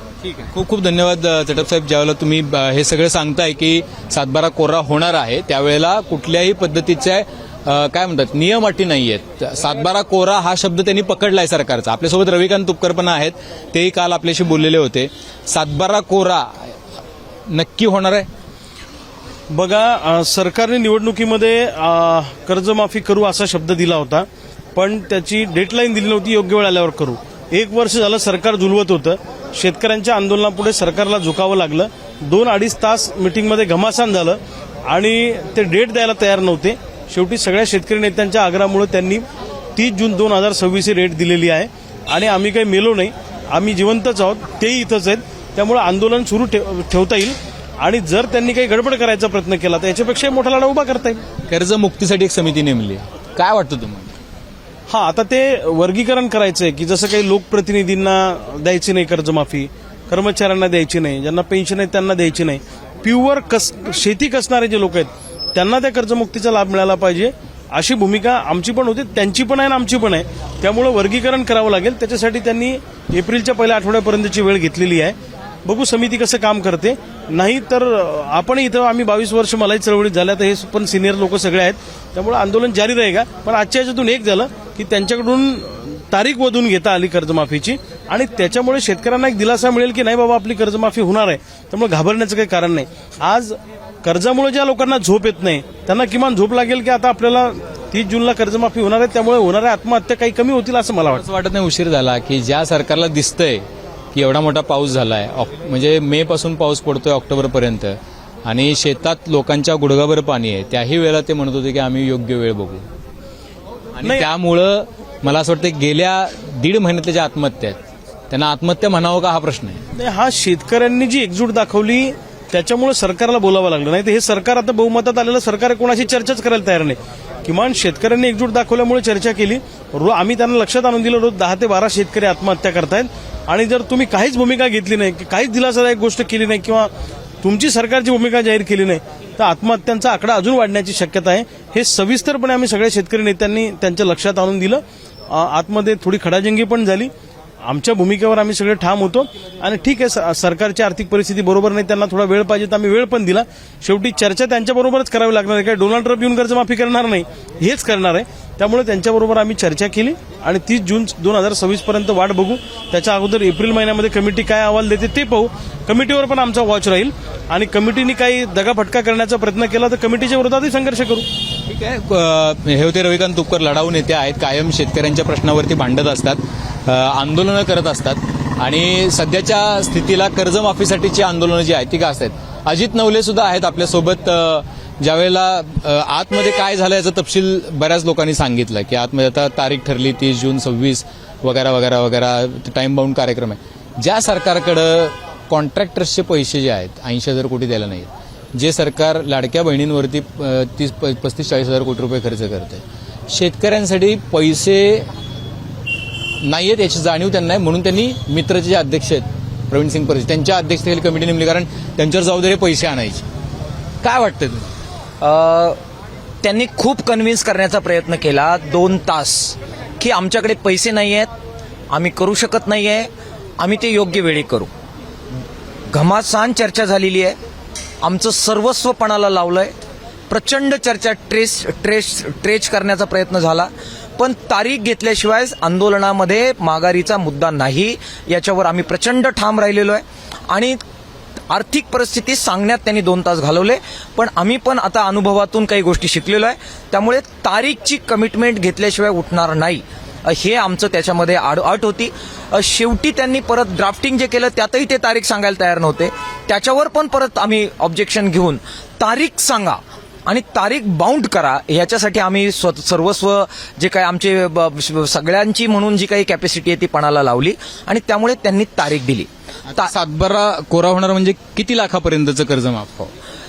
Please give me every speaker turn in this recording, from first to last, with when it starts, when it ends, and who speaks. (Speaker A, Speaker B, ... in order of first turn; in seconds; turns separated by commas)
Speaker A: 0.2-16.8, Speaker A: 17.5-18.3, Speaker B: 19.5-39.2, Speaker B: 39.8-51.2, Speaker A: 51.5-54.1, Speaker B: 54.9-101.2, Speaker A: 101.1-112.8, Speaker A: 114.0-117.8, Speaker B: 114.0-114.3, Speaker A: 118.3-119.8, Speaker B: 120.0-136.9, Speaker B: 137.4-147.1, Speaker B: 147.6-171.3, Speaker A: 171.7-205.1, Speaker A: 206.4-213.3, Speaker A: 214.0-214.7, Speaker C: 215.2-215.8, Speaker C: 216.4-221.3, Speaker C: 221.9-224.7, Speaker C: 225.9-227.4, Speaker C: 228.0-229.7, Speaker C: 230.3-240.8, Speaker C: 241.5-269.9, Speaker A: 269.7-273.1